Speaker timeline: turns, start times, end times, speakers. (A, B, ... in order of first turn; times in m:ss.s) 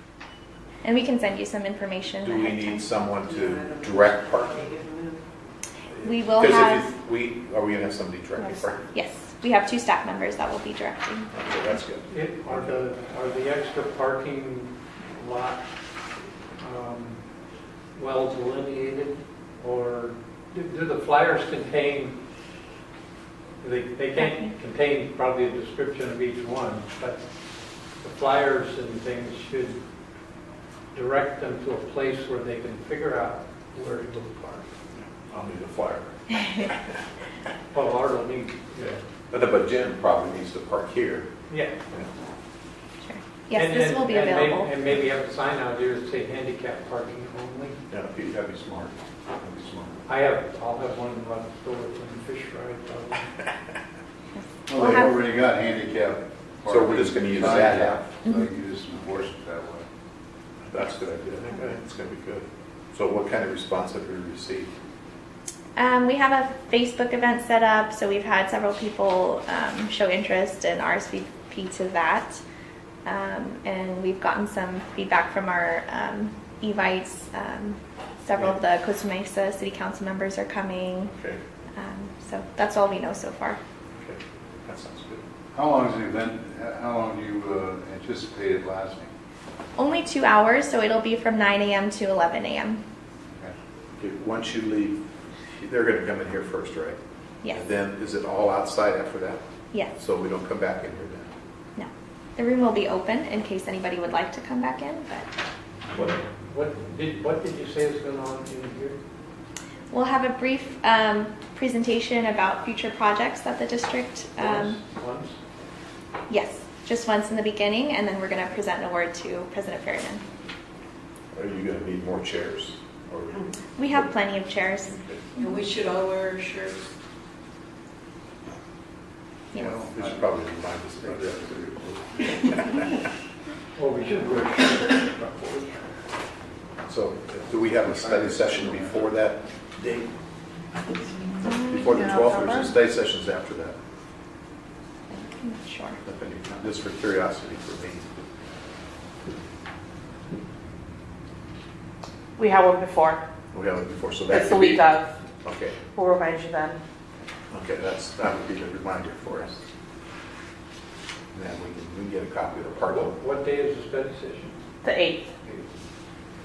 0:00.8-0:02.9 A
0:02.2-0:04.7 B
0:03.2-0:05.2 C
0:06.0-0:08.9 B
0:06.0-0:06.9 A
0:08.9-0:11.3 A
0:11.3-0:12.8 B
0:12.1-0:15.6 D
0:16.6-0:17.2 D
0:18.0-0:22.2 D
0:23.6-0:27.2 D
0:24.2-0:24.5 A
0:28.0-0:29.8 D
0:30.9-0:34.7 D
0:35.0-0:37.0 B
0:37.7-0:39.0 D
0:38.8-0:41.3 B
0:41.5-0:41.8 D
0:43.0-0:44.7 A
0:43.6-0:47.8 D
0:47.9-0:50.0 B
0:50.1-0:53.3 D
0:54.4-0:55.1 A
0:54.7-0:59.9 E
0:56.7-0:58.1 B
1:00.7-1:04.7 B
1:05.8-1:12.4 A
1:13.0-1:21.1 A
1:21.1-1:21.4 B
1:21.8-1:23.6 A
1:24.0-1:25.2 B
1:25.5-1:29.1 E
1:29.8-1:32.8 A
1:34.0-1:35.0 B
1:35.6-1:39.4 B
1:39.9-1:41.3 B
1:41.8-1:45.3 A
1:45.9-1:49.0 D
1:49.9-1:54.8 A
1:54.4-1:55.4 D
1:56.3-2:00.2 A
2:01.3-2:04.1 B
2:03.8-2:05.6 A
2:04.8-2:05.3 B
2:05.4-2:06.9 C
2:09.5-2:10.3 E
2:09.9-2:13.0 B
2:11.0-2:11.8 E
2:13.8-2:15.7 D
2:16.9-2:20.1 B
2:17.8-2:19.0 E
2:21.4-2:22.2 A
2:21.4-2:23.8 B
2:21.9-2:22.7 F
2:25.1-2:26.0 A
2:26.0-2:28.1 B
2:32.4-2:33.2 F
2:33.5-2:35.8 B
2:34.3-2:35.1 F
2:36.0-2:36.8 F
2:37.5-2:39.6 B
2:41.3-2:43.2 B
2:43.0-2:44.6 D
2:44.8-2:45.3 F